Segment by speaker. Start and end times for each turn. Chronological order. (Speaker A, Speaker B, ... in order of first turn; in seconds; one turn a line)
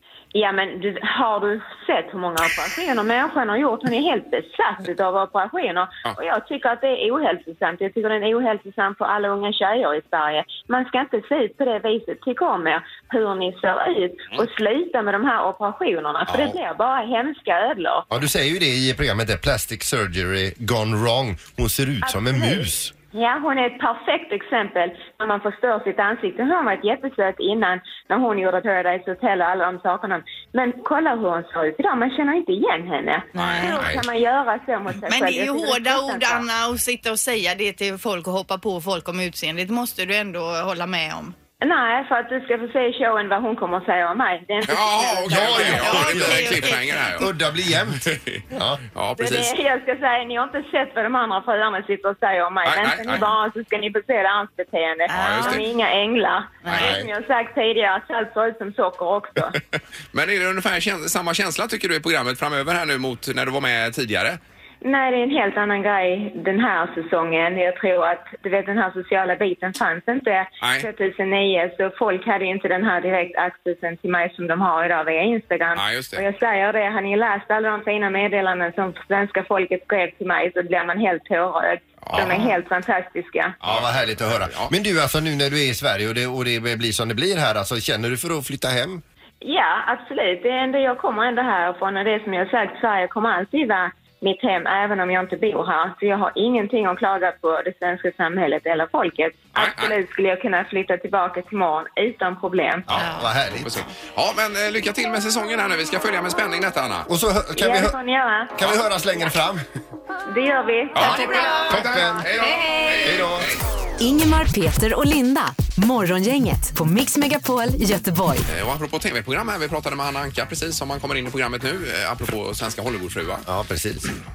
Speaker A: 0.3-18.1
Speaker B: 16.3-16.6
Speaker B: 18.1-22.9
Speaker A: 22.0-36.5
Speaker C: 33.3-33.8
Speaker D: 33.4-33.8
Speaker B: 33.7-34.0
Speaker C: 35.1-41.3
Speaker A: 41.6-46.0
Speaker D: 44.6-47.3
Speaker B: 45.3-48.8
Speaker C: 45.5-47.2
Speaker D: 47.9-49.5
Speaker A: 49.2-59.6
Speaker D: 52.6-53.3
Speaker C: 55.1-55.6
Speaker D: 55.1-55.6
Speaker C: 56.6-56.9
Speaker B: 56.7-57.1
Speaker D: 60.1-64.4
Speaker A: 64.8-83.5
Speaker D: 70.6-70.9
Speaker D: 75.7-76.2
Speaker D: 82.0-82.5
Speaker D: 83.6-84.7
Speaker B: 83.6-89.0
Speaker A: 89.4-102.9
Speaker D: 99.5-100.0
Speaker B: 102.9-103.8
Speaker C: 103.0-103.3
Speaker D: 103.5-107.1
Speaker B: 107.1-108.0
Speaker A: 107.6-108.5
Speaker B: 108.5-109.6
Speaker A: 110.3-111.6
Speaker D: 110.9-113.6
Speaker C: 111.0-113.2
Speaker B: 111.6-112.3
Speaker B: 113.0-113.5
Speaker E: 114.0-118.4
Speaker D: 118.5-123.5
Speaker B: 123.5-124.1